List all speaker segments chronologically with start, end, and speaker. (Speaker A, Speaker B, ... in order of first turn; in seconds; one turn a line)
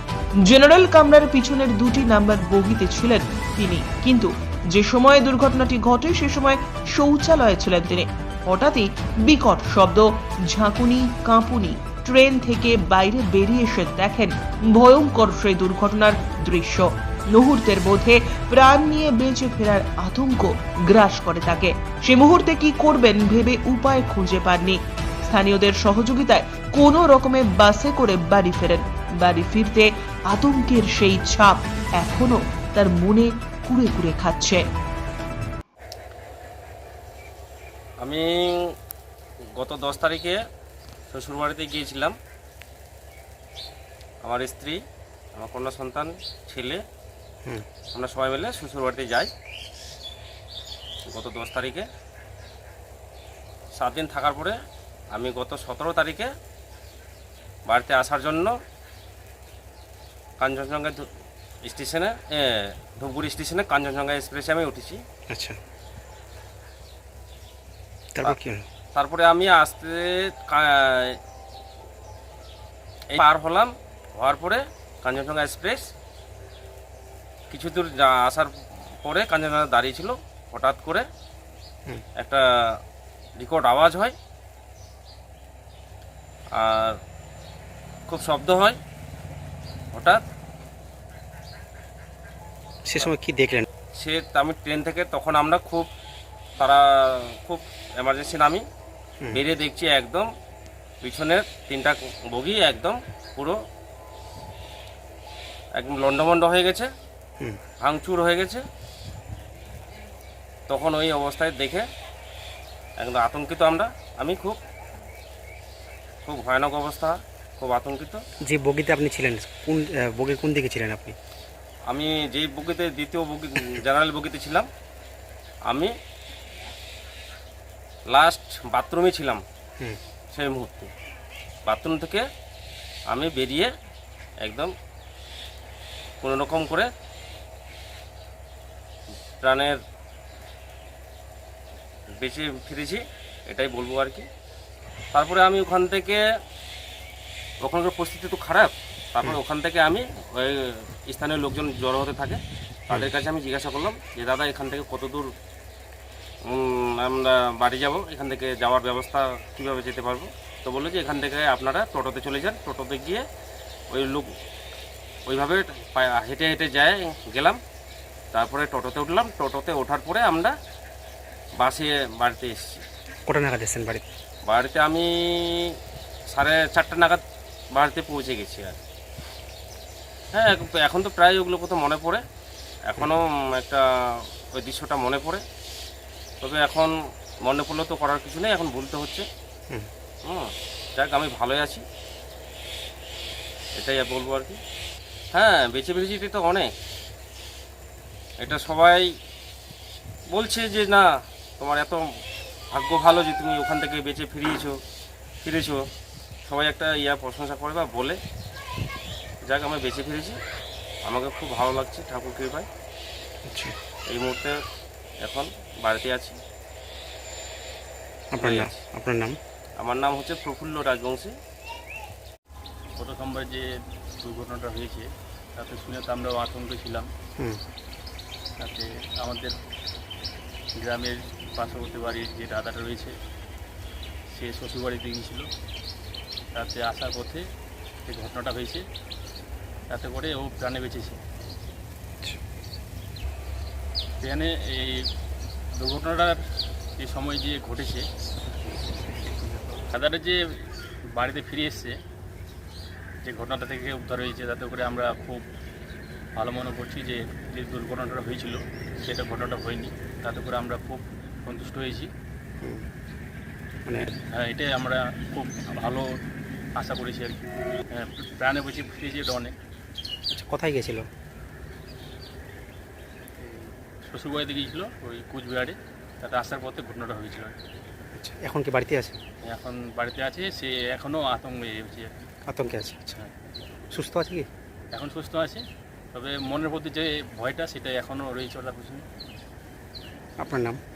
Speaker A: 0.4-34.6
Speaker B: 38.0-38.7
Speaker B: 39.6-40.4
Speaker B: 41.1-42.1
Speaker B: 44.2-44.8
Speaker B: 45.4-46.8
Speaker B: 47.9-49.3
Speaker B: 51.1-51.9
Speaker B: 53.8-54.6
Speaker B: 55.1-56.3
Speaker B: 57.7-58.5
Speaker B: 60.4-61.0
Speaker B: 61.6-65.0
Speaker C: 65.3-65.6
Speaker C: 68.1-68.6
Speaker B: 68.9-71.2
Speaker B: 73.1-75.9
Speaker B: 77.5-78.5
Speaker B: 79.0-81.1
Speaker B: 83.4-84.1
Speaker B: 86.6-87.0
Speaker B: 88.1-88.8
Speaker B: 89.9-90.2
Speaker C: 92.8-93.7
Speaker B: 94.0-95.9
Speaker B: 96.6-98.6
Speaker B: 99.3-100.3
Speaker B: 101.0-103.6
Speaker B: 105.8-106.9
Speaker B: 107.8-108.6
Speaker B: 110.7-111.9
Speaker B: 113.0-114.6
Speaker B: 116.2-118.2
Speaker C: 118.5-121.2
Speaker B: 121.9-124.7
Speaker B: 128.1-129.4
Speaker B: 130.3-130.9
Speaker B: 131.7-132.2
Speaker B: 133.1-133.7
Speaker B: 134.4-134.7
Speaker B: 136.2-136.9
Speaker B: 139.4-139.8
Speaker B: 142.2-144.2
Speaker B: 145.1-146.2
Speaker B: 147.6-155.3
Speaker B: 156.5-163.2
Speaker B: 163.9-164.3
Speaker B: 165.3-167.6
Speaker B: 168.3-170.5
Speaker B: 171.6-172.8
Speaker C: 173.3-174.1
Speaker B: 174.4-175.7
Speaker B: 176.3-177.2
Speaker B: 177.7-178.8
Speaker B: 180.3-182.2
Speaker B: 182.9-185.4
Speaker B: 186.4-186.9
Speaker B: 187.4-189.3
Speaker B: 190.2-191.8
Speaker B: 193.8-194.6
Speaker B: 195.3-196.7
Speaker B: 198.4-199.1
Speaker B: 200.3-201.1
Speaker B: 201.6-202.0
Speaker B: 202.7-204.8
Speaker B: 205.4-205.8
Speaker B: 206.4-208.2
Speaker B: 209.5-210.4
Speaker B: 211.1-212.7
Speaker C: 213.4-213.8
Speaker B: 214.1-214.5
Speaker B: 215.2-216.4
Speaker C: 218.3-219.4
Speaker B: 218.4-218.8
Speaker B: 219.8-221.3
Speaker D: 223.0-223.7
Speaker D: 224.2-227.1
Speaker D: 228.6-229.6
Speaker D: 230.8-233.2
Speaker D: 234.3-235.5
Speaker D: 236.5-237.4
Speaker D: 238.1-238.8
Speaker D: 239.9-241.2
Speaker D: 244.2-245.1
Speaker D: 245.8-246.4
Speaker D: 247.0-248.1
Speaker D: 249.8-250.6
Speaker D: 251.2-252.0
Speaker D: 253.2-255.5
Speaker D: 256.4-262.1
Speaker C: 262.6-262.9
Speaker C: 263.9-264.1
Speaker D: 264.4-266.1
Speaker D: 266.8-267.4
Speaker D: 267.9-269.6
Speaker C: 270.3-271.1
Speaker D: 273.4-277.6
Speaker C: 278.1-279.2
Speaker D: 279.5-282.1
Speaker C: 282.5-283.2
Speaker C: 283.9-284.5
Speaker D: 284.9-289.1
Speaker C: 290.4-290.8